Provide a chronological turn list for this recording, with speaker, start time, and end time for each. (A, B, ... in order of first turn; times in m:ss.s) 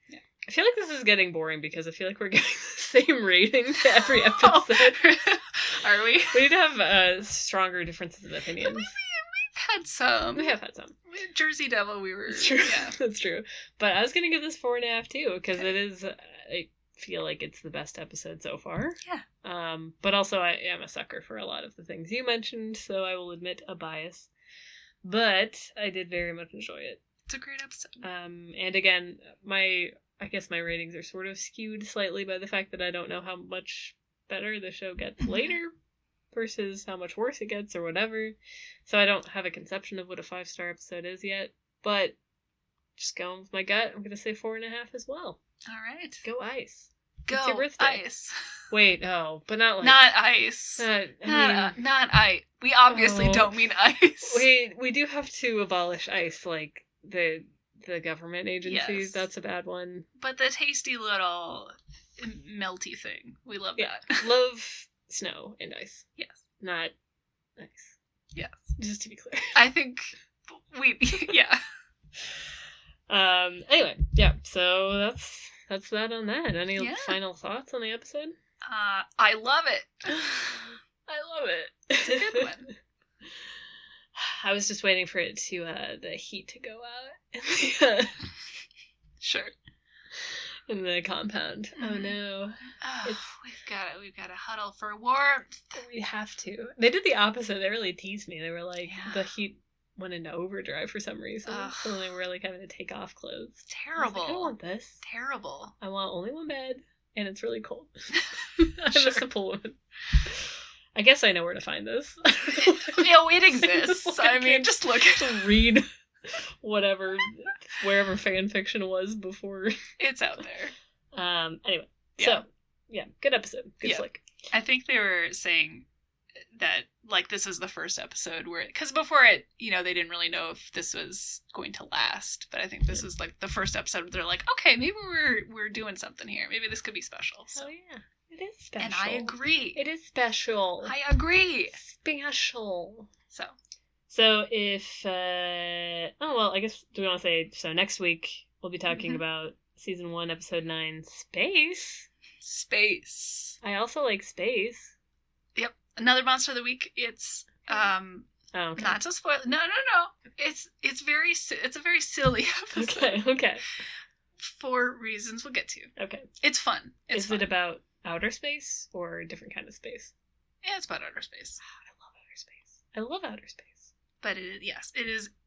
0:00.4-0:05.1 A
0:03.8-0:06.4 B
0:06.3-0:08.9 A
0:08.6-0:10.5 B
0:10.4-0:11.0 A
0:11.1-0:13.0 B
0:12.3-0:24.3 A
0:25.0-0:27.0 A
0:27.3-0:28.0 B
0:28.0-0:35.7 A
0:35.2-0:35.6 B
0:36.3-0:42.2 A
0:43.0-0:45.4 A
0:45.7-0:46.2 B
0:46.2-0:48.0 A
0:47.3-0:48.4 B
0:48.7-0:50.1 A
0:49.8-0:54.4 B
0:50.8-0:51.8 A
0:52.9-0:53.5 A
0:54.3-1:00.1 A
0:58.6-0:59.3 B
1:00.2-1:04.2 B
1:03.8-1:06.1 A
1:06.2-1:06.4 B
1:06.6-1:06.9 A
1:07.6-1:08.0 A
1:08.3-1:08.7 B
1:08.8-1:09.6 A
1:09.6-1:11.6 B
1:13.1-1:18.4 A
1:16.8-1:17.2 B
1:18.6-1:20.2 B
1:20.1-1:22.7 A
1:22.0-1:22.7 B
1:24.2-1:28.2 A
1:29.2-1:29.5 B
1:30.2-1:33.3 A
1:31.8-1:32.2 B
1:32.8-1:35.8 B
1:35.8-1:45.0 A
1:38.9-1:39.3 B
1:41.5-1:42.0 B
1:43.7-1:45.7 B
1:45.8-1:47.9 A
1:48.6-1:59.8 A
1:48.9-1:49.2 B
1:52.6-1:55.5 B
2:00.0-2:00.7 B
2:01.2-2:04.2 A
2:03.8-2:05.9 B
2:06.4-2:17.7 B
2:17.6-2:21.0 A
2:18.8-2:19.8 B
2:20.8-2:21.8 B
2:21.8-2:23.1 A
2:24.1-2:32.1 A
2:28.9-2:29.2 B
2:32.4-2:33.6 B
2:33.6-2:34.9 A
2:35.6-2:43.2 B
2:38.5-2:39.0 A
2:42.8-2:43.7 A
2:44.4-2:45.9 B
2:46.0-2:46.3 A
2:46.4-2:47.5 B
2:47.1-2:50.1 A
2:50.6-2:51.6 B
2:51.8-2:53.9 A
2:54.2-2:55.3 B